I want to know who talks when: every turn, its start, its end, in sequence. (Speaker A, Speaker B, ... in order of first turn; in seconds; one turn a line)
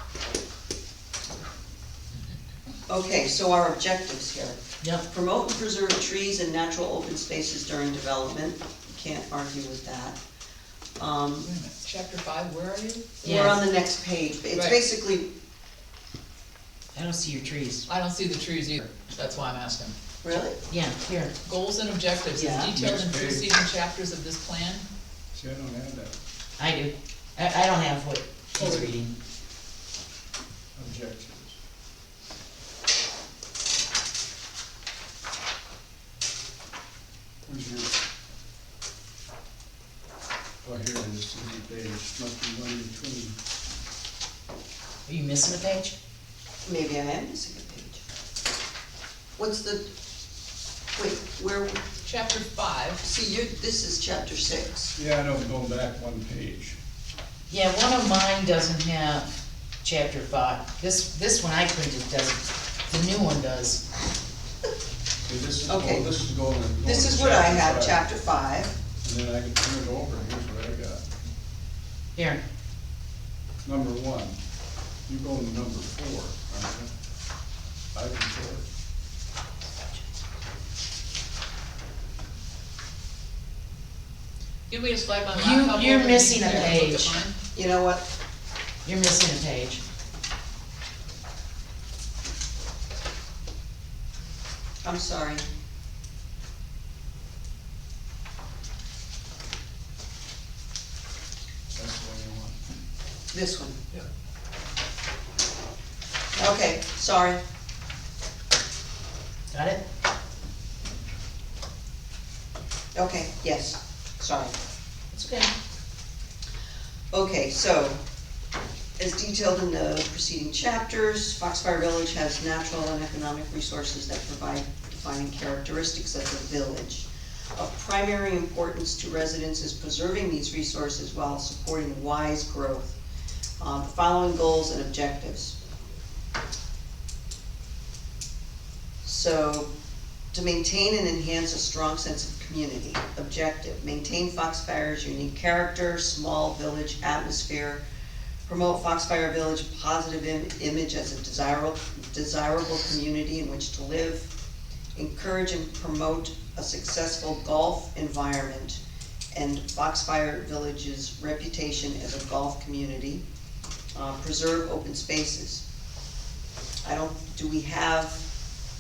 Speaker A: 2.9-10.2
Speaker A: 11.0-11.5
Speaker B: 11.4-13.2
Speaker A: 13.2-15.3
Speaker C: 13.2-13.6
Speaker C: 16.9-17.9
Speaker B: 17.9-19.9
Speaker A: 20.2-20.6
Speaker C: 20.7-21.4
Speaker B: 21.4-24.9
Speaker A: 22.3-22.7
Speaker D: 22.7-23.5
Speaker D: 25.3-26.1
Speaker C: 26.6-29.1
Speaker D: 28.6-28.9
Speaker D: 30.8-31.6
Speaker D: 37.5-37.9
Speaker D: 40.6-43.4
Speaker C: 45.1-46.0
Speaker A: 46.6-48.0
Speaker A: 49.4-49.9
Speaker A: 51.0-51.8
Speaker B: 52.0-53.0
Speaker A: 53.0-55.0
Speaker D: 55.0-56.8
Speaker C: 57.5-59.3
Speaker C: 59.8-63.9
Speaker D: 65.3-68.0
Speaker A: 65.7-66.1
Speaker A: 66.8-68.8
Speaker D: 69.0-71.0
Speaker C: 72.2-72.4
Speaker D: 73.7-74.4
Speaker D: 75.1-76.9
Speaker D: 77.9-78.7
Speaker B: 84.7-87.4
Speaker C: 85.3-87.2
Speaker A: 86.5-86.7
Speaker A: 87.5-88.0
Speaker C: 88.8-89.8
Speaker A: 94.8-95.5
Speaker D: 101.7-102.6
Speaker A: 103.3-103.8
Speaker A: 106.3-107.4
Speaker C: 109.5-109.8
Speaker A: 112.9-114.5
Speaker C: 115.1-115.5
Speaker A: 117.1-118.0
Speaker A: 119.0-133.0
Speaker A: 133.6-135.6
Speaker A: 139.0-139.7
Speaker A: 140.3-147.8
Speaker A: 148.5-154.3
Speaker A: 155.0-158.8
Speaker A: 159.3-163.2
Speaker A: 163.9-165.6
Speaker A: 166.8-168.2